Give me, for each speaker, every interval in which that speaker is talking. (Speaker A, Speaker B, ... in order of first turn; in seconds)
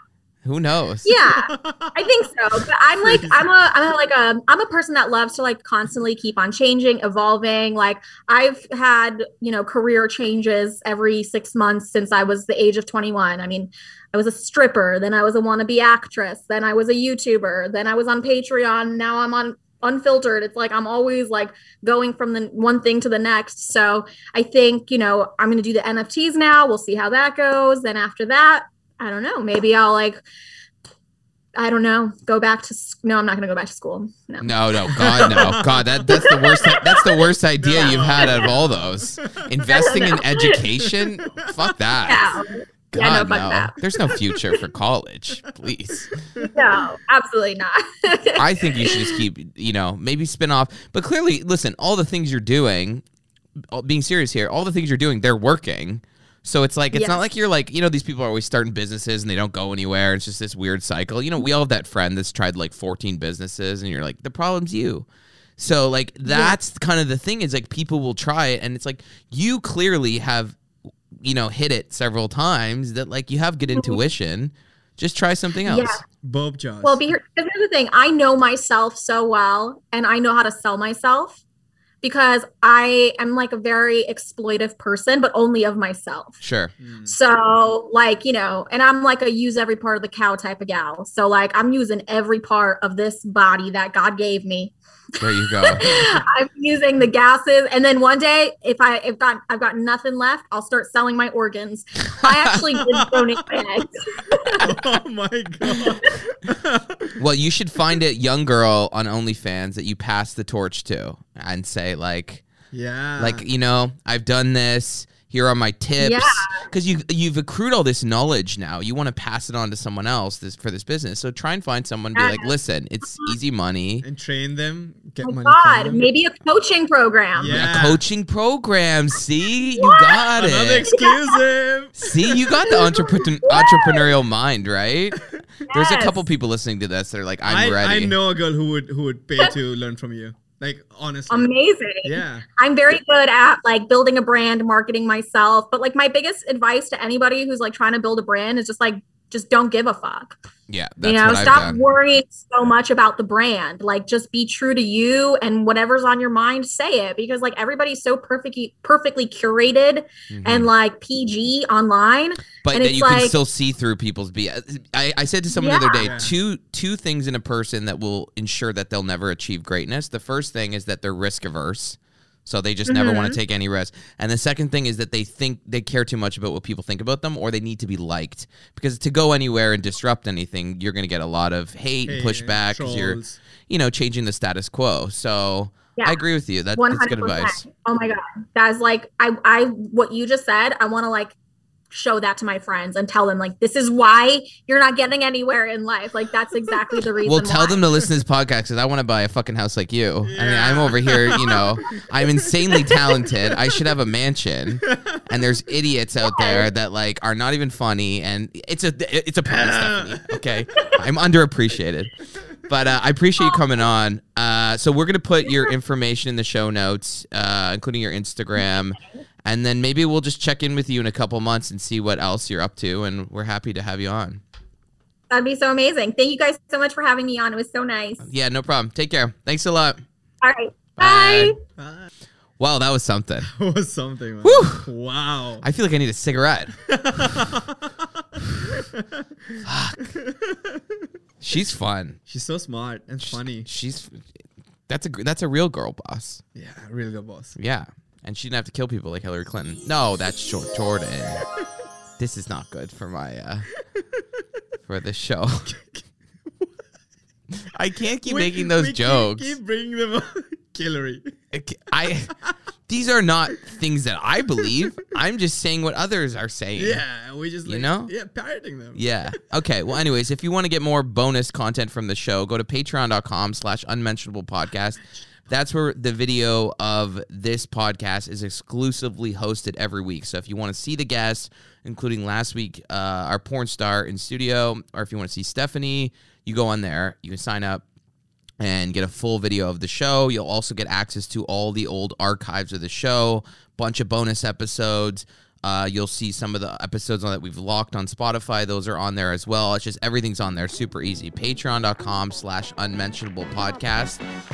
Speaker A: 0.4-1.1, 34.4-42.4, 42.9-46.1, 48.4-53.0, 53.7-65.0, 65.6-70.6, 71.2-76.0, 86.4-86.7, 95.2-95.9, 107.2-112.4, 113.2-124.0, 127.5-130.9, 132.0-138.2, 150.7-151.8, 160.3-160.7, 162.6-187.7, 197.2-212.1, 212.7-224.4, 228.2-230.0, 231.0-231.6, 232.6-233.5, 234.4-234.9, 235.6-236.7, 239.6-240.1, 241.4-242.2, 243.2-244.3, 244.9-246.4, 247.5-251.4, 252.2-253.7, 254.8-255.8, 257.6-259.6, 261.5-262.3, 262.9-267.0, 267.6-268.1, 268.9-287.8, 288.6-304.2
Speaker B: 1.0-30.2, 31.6-35.5, 36.0-37.1, 37.7-38.5, 39.7-40.6, 42.0-43.8, 46.4-48.9, 56.9-57.2, 66.2-66.6, 75.6-76.0, 76.8-81.4, 82.0-86.4, 87.0-94.7, 95.6-104.6, 105.8-106.1, 116.0-116.6, 122.1-122.5, 125.2-127.6, 129.8-130.3, 130.9-131.4, 132.7-134.1, 135.7-136.2, 141.3-150.4, 151.0-163.3, 165.5-166.1, 172.9-173.4, 186.7-191.3, 191.9-197.8, 206.2-206.7, 218.6-219.0, 225.3-228.3, 230.4-231.6
Speaker C: 1.3-1.9, 3.0-3.4, 34.9-36.8, 37.6-39.4, 40.9-42.2, 46.2-46.5, 76.2-77.0, 86.8-87.1, 102.8-103.3, 104.6-107.2, 112.7-113.4, 124.0-126.1, 127.3-128.0, 130.3-132.8, 137.4-141.5, 142.0-142.4, 166.0-166.3, 182.0-183.4, 200.2-201.6, 204.8-205.2, 209.5-210.2, 231.8-232.1, 233.5-235.6, 236.9-238.0, 238.6-239.6, 240.1-241.0, 242.3-243.7, 246.5-247.5, 255.7-256.8, 258.2-261.3, 266.8-269.0